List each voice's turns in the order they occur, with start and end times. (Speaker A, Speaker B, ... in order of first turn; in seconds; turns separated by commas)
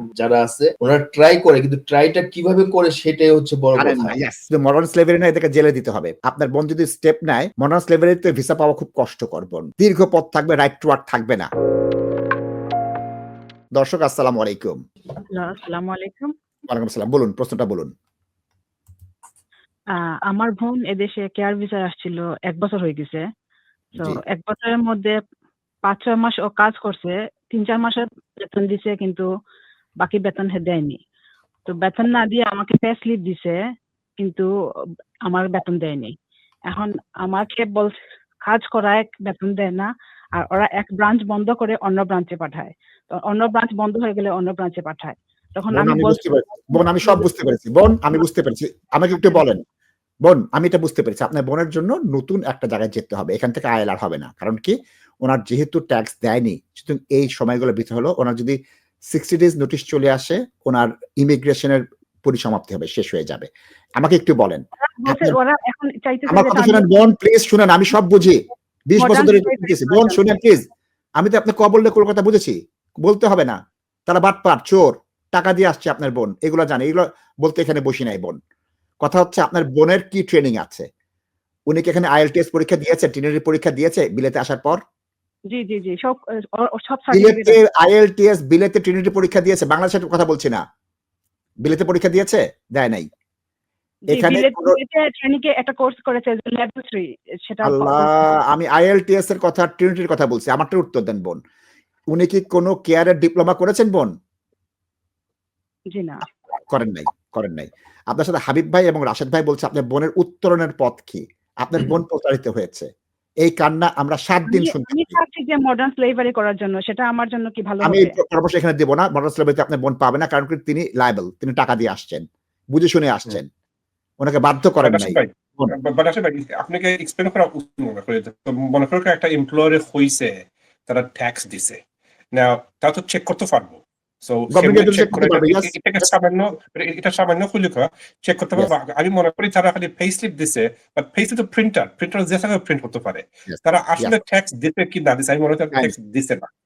Speaker A: 0.2-4.2, Speaker B: 3.8-11.5, Speaker B: 13.8-14.8, Speaker C: 15.2-16.3, Speaker B: 16.7-17.9, Speaker C: 20.3-23.2, Speaker C: 24.0-25.1, Speaker C: 25.9-29.3, Speaker C: 30.0-31.0, Speaker C: 31.7-33.6, Speaker C: 34.2-34.5, Speaker C: 35.3-36.1, Speaker C: 36.7-37.9, Speaker C: 38.5-47.3, Speaker B: 45.7-49.6, Speaker B: 50.2-54.7, Speaker B: 55.2-58.6, Speaker B: 59.1-65.4, Speaker C: 64.9-67.1, Speaker B: 66.3-70.7, Speaker C: 69.0-70.2, Speaker B: 71.2-78.3, Speaker B: 79.0-80.9, Speaker B: 81.7-84.8, Speaker C: 85.5-87.6, Speaker B: 87.1-90.6, Speaker B: 91.6-93.1, Speaker C: 94.1-98.1, Speaker B: 94.1-94.8, Speaker B: 97.6-101.4, Speaker B: 102.1-104.1, Speaker C: 105.9-106.2, Speaker B: 106.7-112.9, Speaker B: 113.4-115.2, Speaker C: 114.5-118.2, Speaker B: 117.8-123.5, Speaker B: 124.2-125.8, Speaker D: 124.8-131.8, Speaker D: 132.3-146.5, Speaker B: 134.5-135.8, Speaker B: 143.5-144.2